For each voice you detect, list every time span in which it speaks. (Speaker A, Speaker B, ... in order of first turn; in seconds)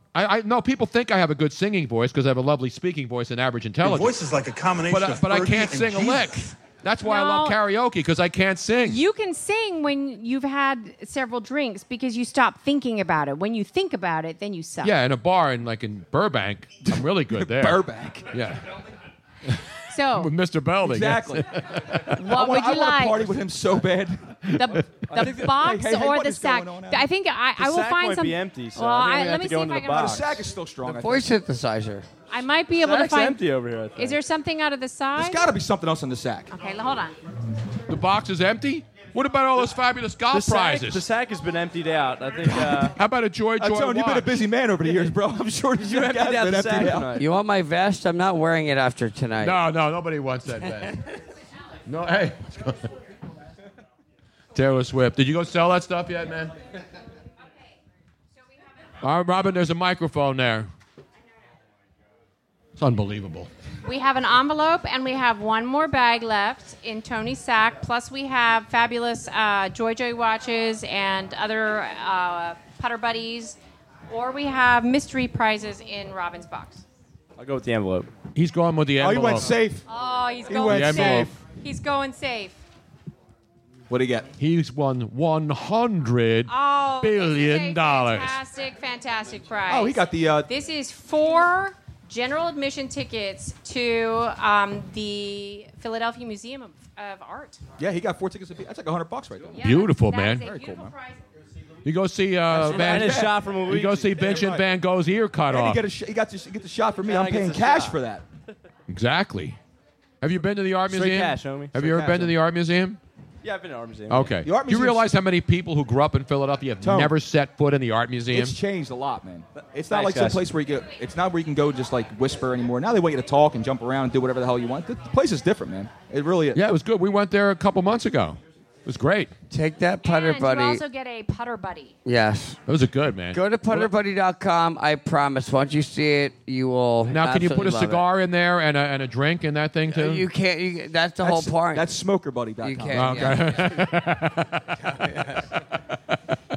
Speaker A: 0.1-4.2, 4.9-9.0, 14.8-18.6, 19.4-22.2, 24.4-25.1, 37.9-41.1, 42.6-44.4, 49.4-51.0, 51.9-52.9, 54.5-56.5, 59.0-60.7, 62.8-63.5, 78.3-79.6, 80.7-81.3, 84.4-88.4, 99.6-100.4, 101.8-105.8, 108.9-109.6, 110.2-113.0, 114.1-118.5, 126.5-129.3, 132.7-133.9, 137.1-140.3, 142.9-144.8
Speaker B: 3.8-6.3
Speaker C: 7.0-7.6, 8.8-14.9, 19.9-20.3, 22.1-23.3, 24.6-30.1, 32.3-33.4, 34.0-35.5, 36.5-37.1, 63.8-73.6, 74.1-76.8, 79.9-82.6, 86.5-97.6, 99.5-101.2, 130.0-131.9
Speaker D: 16.9-18.3, 20.8-21.5, 22.2-24.5, 25.1-27.1, 29.8-31.3, 35.1-36.5, 42.4-42.9, 43.6-47.2, 79.0-79.8, 80.5-81.4, 83.9-84.3, 89.7-90.5, 97.8-99.7, 100.4-100.9, 102.5-103.5, 104.2-104.6, 105.5-108.2, 111.7-112.3, 114.4-115.1, 116.8-117.1, 118.3-126.6, 141.2-143.6
Speaker E: 27.6-30.5, 32.8-34.2, 40.3-42.9, 44.8-45.1, 45.7-47.2, 77.4-78.1, 102.5-104.5, 107.0-108.0, 110.9-111.8, 113.4-114.3, 119.9-120.5
Speaker F: 30.8-32.0, 47.1-49.6, 129.5-130.8, 132.0-132.6, 133.3-138.0, 139.9-141.9, 142.6-143.6, 144.9-145.4